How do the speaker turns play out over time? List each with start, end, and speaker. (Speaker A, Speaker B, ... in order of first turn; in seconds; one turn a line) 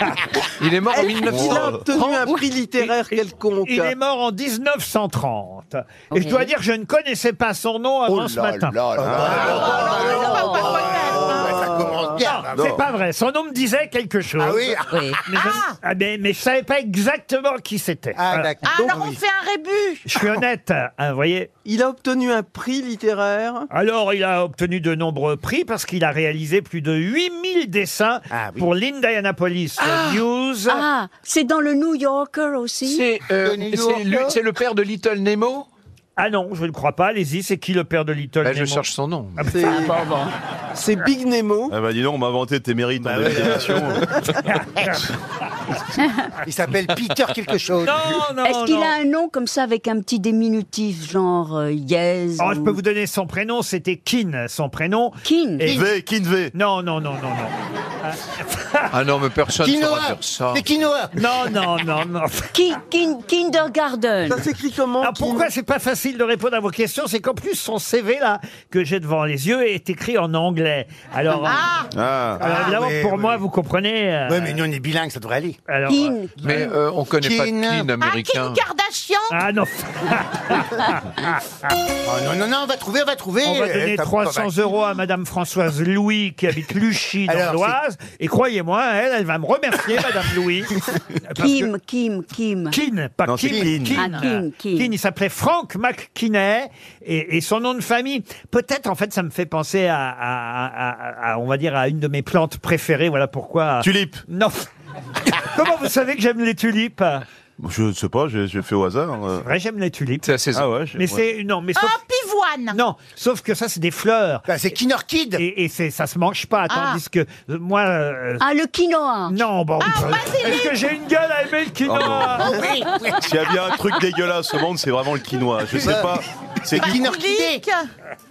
Speaker A: 0.6-1.8
Speaker B: 0.9-3.9
Speaker C: 1.2-1.8
Speaker D: 1.9-8.8
Speaker E: 6.1-6.5
Speaker C: 8.1-10.1
Speaker F: 8.9-12.8
Speaker G: 9.4-11.6
Speaker E: 9.7-10.8
Speaker B: 11.0-12.2
Speaker D: 12.2-18.5
Speaker C: 12.5-12.8
Speaker F: 14.4-14.8
Speaker E: 14.9-15.2
Speaker G: 15.3-15.8
Speaker F: 18.1-19.2
Speaker G: 18.6-20.0
Speaker D: 20.1-21.5
Speaker B: 21.6-23.7
Speaker D: 23.7-30.8
Speaker F: 28.3-28.6
Speaker A: 29.8-30.2
Speaker E: 30.7-33.1
Speaker A: 32.9-35.7
Speaker F: 33.4-34.4
Speaker D: 36.2-40.1
Speaker A: 38.4-39.5
Speaker B: 39.5-40.0
Speaker B: 40.7-41.7
Speaker C: 41.7-44.3
Speaker F: 43.0-44.1
Speaker D: 44.4-45.1
Speaker F: 46.4-48.1
Speaker D: 47.8-48.9
Speaker E: 48.4-52.8
Speaker D: 52.4-55.9
Speaker E: 55.2-55.8
Speaker C: 55.7-56.5
Speaker D: 56.5-58.9
Speaker A: 58.9-60.7
Speaker F: 59.6-61.1
Speaker D: 61.1-62.5
Speaker E: 62.5-64.4
Speaker B: 64.3-65.5
Speaker D: 65.0-71.6
Speaker G: 71.4-71.9
Speaker C: 71.9-72.4
Speaker D: 72.4-74.6
Speaker F: 72.4-73.4
Speaker F: 74.2-75.6
Speaker D: 75.7-76.7
Speaker E: 75.9-76.7
Speaker A: 76.4-78.6
Speaker F: 77.2-77.9
Speaker G: 78.0-79.3
Speaker D: 79.3-81.4
Speaker F: 82.0-84.5
Speaker D: 83.4-90.7
Speaker F: 87.3-87.8
Speaker D: 91.3-91.7
Speaker E: 91.4-92.8
Speaker D: 92.7-104.7
Speaker C: 93.2-94.0
Speaker F: 93.5-93.8
Speaker E: 94.0-94.9
Speaker C: 103.8-104.2
Speaker D: 105.2-107.2
Speaker C: 107.6-109.4
Speaker D: 109.4-110.3
Speaker A: 110.2-110.7
Speaker C: 110.5-111.2
Speaker D: 111.0-112.0
Speaker G: 111.8-112.8
Speaker D: 112.7-114.5
Speaker F: 114.5-115.4
Speaker D: 115.4-118.4
Speaker G: 116.7-117.0
Speaker E: 118.4-119.4
Speaker D: 119.3-122.6
Speaker G: 119.8-120.8
Speaker C: 121.8-122.6
Speaker F: 122.4-123.2
Speaker C: 123.1-127.0
Speaker F: 125.7-127.6
Speaker G: 126.8-127.9